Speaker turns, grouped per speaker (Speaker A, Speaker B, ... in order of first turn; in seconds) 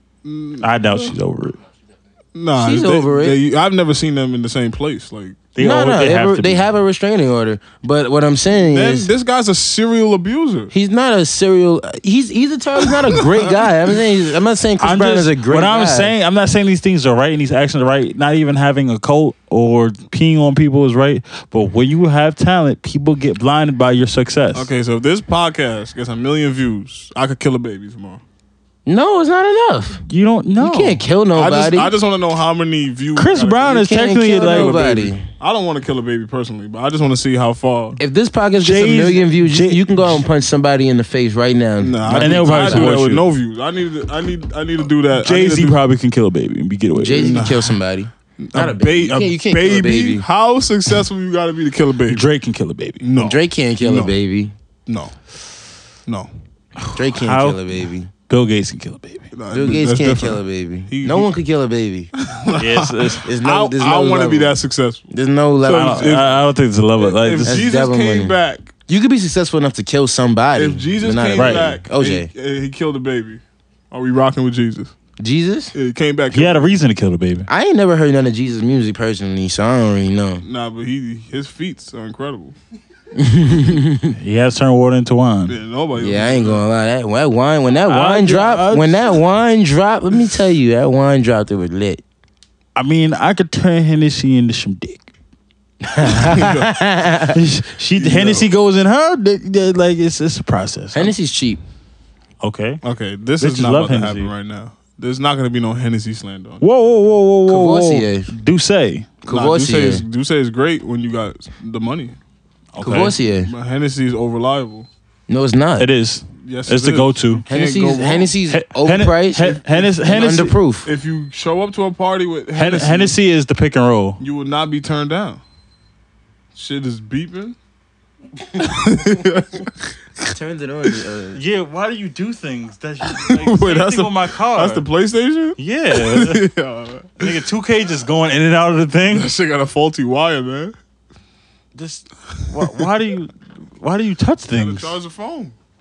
Speaker A: 0.2-1.1, 2.4-5.5, 8.5-10.7, 13.2-13.6, 24.5-28.2, 31.4-38.0, 41.8-45.8, 47.1-47.8, 48.4-52.3, 53.0-54.1, 54.9-55.1, 59.3-61.4, 62.2-65.1, 65.6-66.4, 67.0-68.7, 70.6-74.9, 75.7-76.7, 80.4-82.5, 85.5-86.6, 96.1-96.7, 98.0-98.5, 102.8-106.7, 109.3-112.2, 112.8-114.9, 116.4-118.3, 120.8-123.2, 124.2-125.4, 126.5-127.6, 128.6-129.7, 133.1-137.4, 139.1-140.7, 144.5-145.6
Speaker B: 0.6-1.6, 5.5-6.7, 14.8-24.7, 30.1-31.0, 33.2-34.9, 38.6-40.1, 42.1-43.2, 45.2-47.5, 52.1-53.0, 56.9-57.6, 58.3-59.3, 62.6-63.2, 65.7-67.6, 71.4-71.7, 76.3-77.5, 84.2-85.6, 87.9-89.2, 92.8-95.1, 97.3-101.1, 102.4-102.8, 103.4-104.3, 106.6-109.1, 112.8-113.2, 115.8-117.5, 118.5-120.5, 122.5-124.2, 131.3-134.8, 135.6-136.5, 137.2-139.3, 141.8-144.9
Speaker C: 2.6-3.4, 5.6-9.1, 10.7-16.1, 28.9-30.0, 30.6-31.9, 33.7-35.3, 38.0-42.9, 47.0-50.2, 53.2-54.5, 56.9-58.1, 59.5-62.1, 63.2-64.6, 65.1-66.2, 67.5-68.4, 68.9-72.3, 75.2-75.7, 77.5-80.4, 83.2-84.2, 86.0-92.0, 95.8-97.4, 100.9-101.6, 107.5-108.3, 109.2-110.0, 112.8-113.5, 115.3-115.9, 117.5-120.9, 130.2-131.4